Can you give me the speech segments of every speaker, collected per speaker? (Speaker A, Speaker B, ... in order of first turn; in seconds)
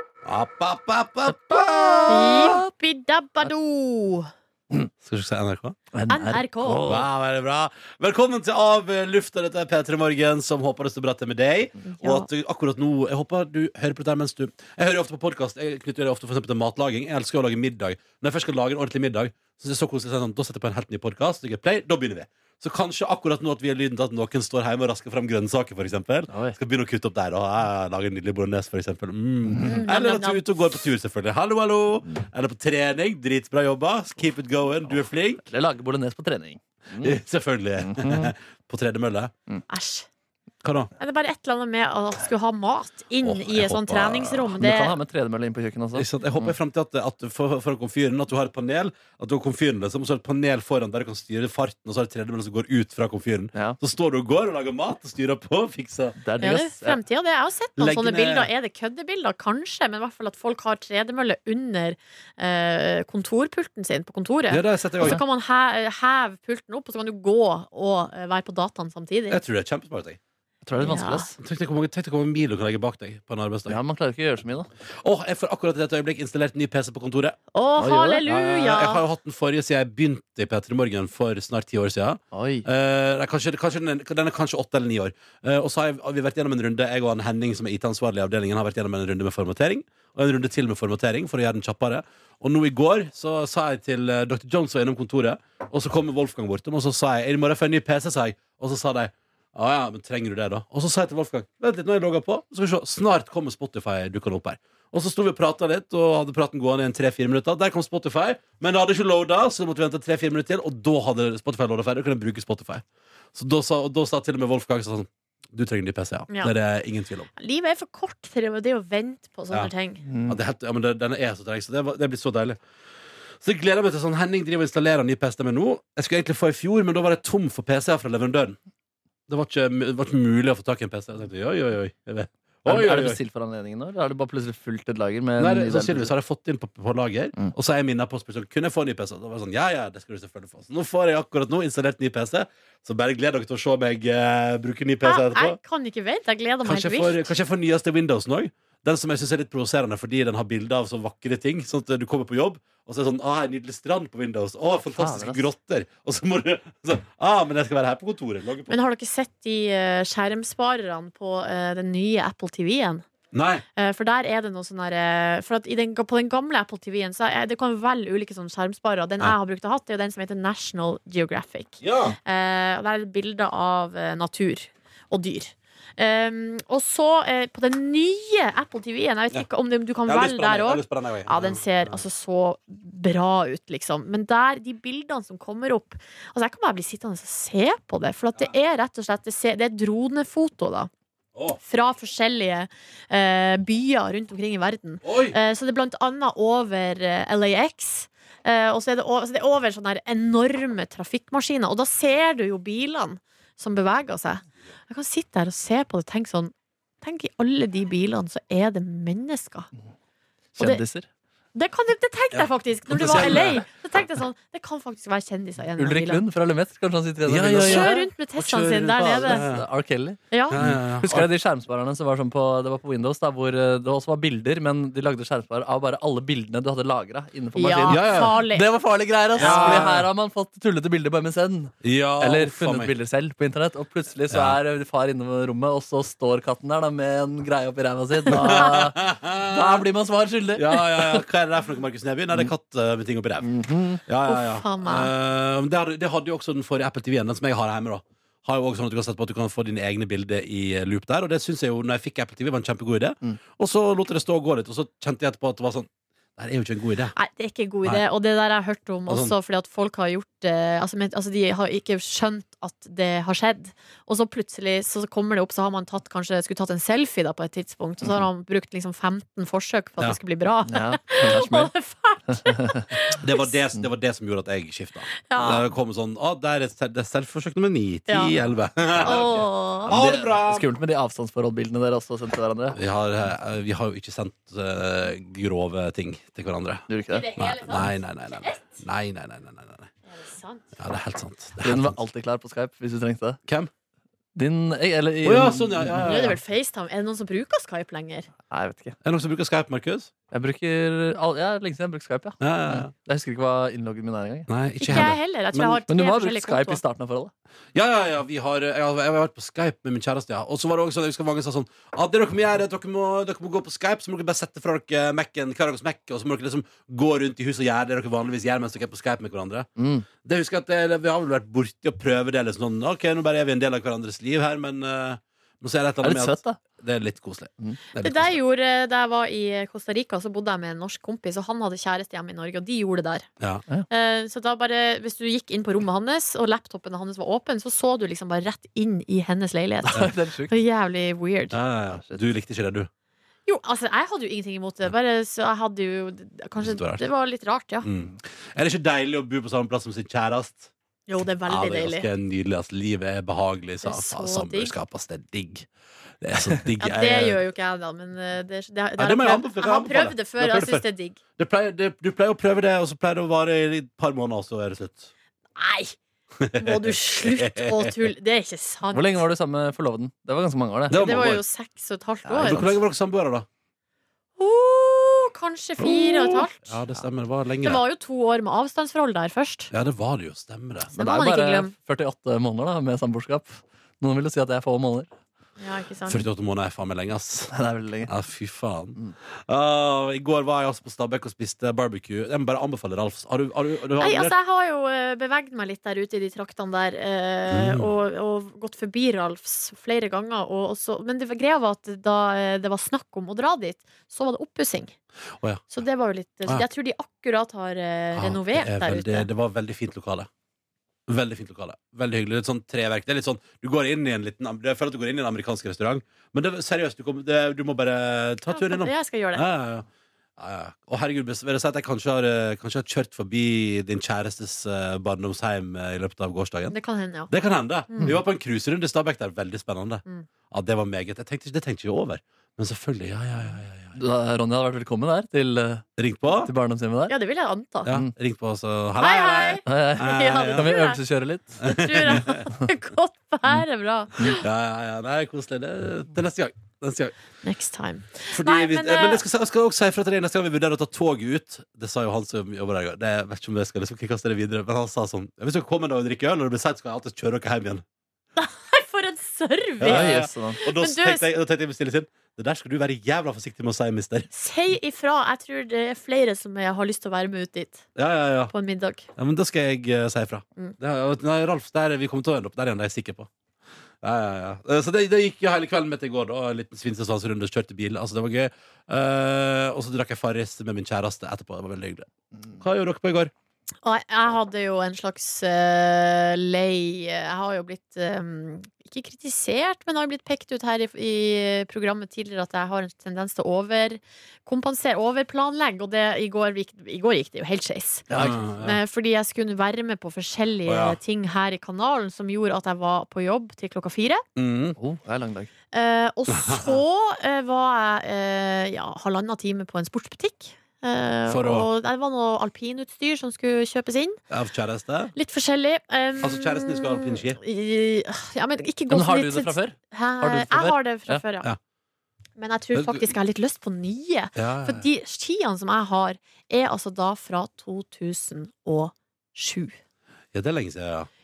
Speaker A: 0.2-2.6, 5.0-5.8, 6.8-35.4, 37.0-39.3, 40.6-40.9, 43.2-44.6, 46.0-56.2, 57.8-58.5, 64.5-65.2, 69.3-70.2, 71.4-73.8, 75.0-77.4, 78.2-117.3, 120.3-122.6, 123.4-128.6, 129.3-133.2, 135.4-145.6, 146.6-158.8, 163.3-163.6, 171.8-172.2, 180.1-182.0, 191.3-191.6, 195.0-195.3, 212.3-213.6, 217.3-219.7, 220.5-221.3, 227.9-228.3, 229.3-230.1, 231.8-232.9, 234.3-234.6, 238.3-239.8, 240.6-243.5, 244.0-257.1, 259.1-259.3, 273.2-280.7, 282.7-286.8, 287.4-289.9, 290.8-292.0, 295.2-296.4, 299.0-300.1, 302.4-302.9, 304.5-305.8, 307.7-319.7, 320.2-328.4, 341.5-342.9, 346.6-347.0, 347.8-350.7, 351.5-355.7, 356.2-357.4, 359.0-360.8, 361.4-365.1, 366.4-368.1, 370.9-371.4, 372.4-373.5, 375.8-377.8, 379.7-380.9, 386.1-387.5, 388.1-394.3, 397.5-397.9, 405.4-405.7, 408.1-410.3, 411.1-419.9, 420.4-426.8, 427.3-434.0, 436.0-436.5, 437.9-440.7, 441.6-442.4, 444.3-447.1, 448.3-457.8, 459.8-464.3, 468.0-468.5, 469.2-473.3, 474.0-483.3, 498.1-498.8, 500.7-501.0, 504.4-504.8, 506.3-506.8, 511.3-511.7, 514.3-515.1, 516.2-517.4, 522.8-523.1, 524.4-524.9, 530.3-531.1
Speaker B: 1.5-2.2, 5.9-7.1, 26.3-26.6, 35.5-37.2, 37.8-38.3, 44.6-46.5, 56.2-57.0, 70.7-71.3, 73.7-74.7, 77.8-78.2, 82.3-82.7, 120.1-120.4, 132.7-136.1, 154.9-155.4, 210.5-211.1, 215.8-217.9, 219.2-241.2, 243.4-244.0, 270.7-271.7, 272.3-272.9, 279.0-279.2, 279.9-282.8, 286.9-287.3, 291.6-293.4, 294.4-296.3, 298.5-299.0, 300.3-305.1, 305.9-307.3, 319.8-320.1, 326.0-326.6, 339.9-340.5, 341.9-342.2, 368.9-371.0, 372.3-372.7, 380.9-385.1, 387.5-388.1, 434.0-435.9, 436.4-437.1, 439.7-441.6, 459.8-460.6, 498.1-498.4, 504.8-505.5, 518.9-521.2
Speaker C: 2.1-4.3, 6.1-6.8, 11.8-12.3, 29.6-30.4, 39.7-40.1, 41.0-45.0, 56.4-69.4, 70.8-71.3, 77.5-79.0, 117.4-120.0, 145.0-147.3, 158.7-163.1, 163.8-190.9, 191.6-209.7, 211.5-216.2, 217.6-219.4, 220.3-220.6, 227.6-228.7, 229.4-229.9, 244.3-245.1, 257.1-273.5, 275.2-275.7, 278.1-278.3, 279.0-280.0, 287.1-288.8, 290.1-290.7, 296.0-298.3, 304.8-306.8, 328.0-333.2, 333.9-341.6, 343.5-347.9, 351.1-352.1, 353.8-354.7, 356.8-361.2, 365.6-366.0, 366.6-369.2, 370.9-372.7, 374.4-376.7, 377.6-379.7, 381.0-381.7, 385.6-386.2, 394.0-405.0, 405.7-409.3, 418.5-419.4, 426.7-427.3, 427.9-428.1, 437.1-437.9, 439.0-441.0, 441.6-444.4, 447.4-449.2, 458.4-461.3, 464.3-467.9, 468.5-469.1, 483.8-504.2, 505.7-514.2, 515.1-521.5, 522.4-529.8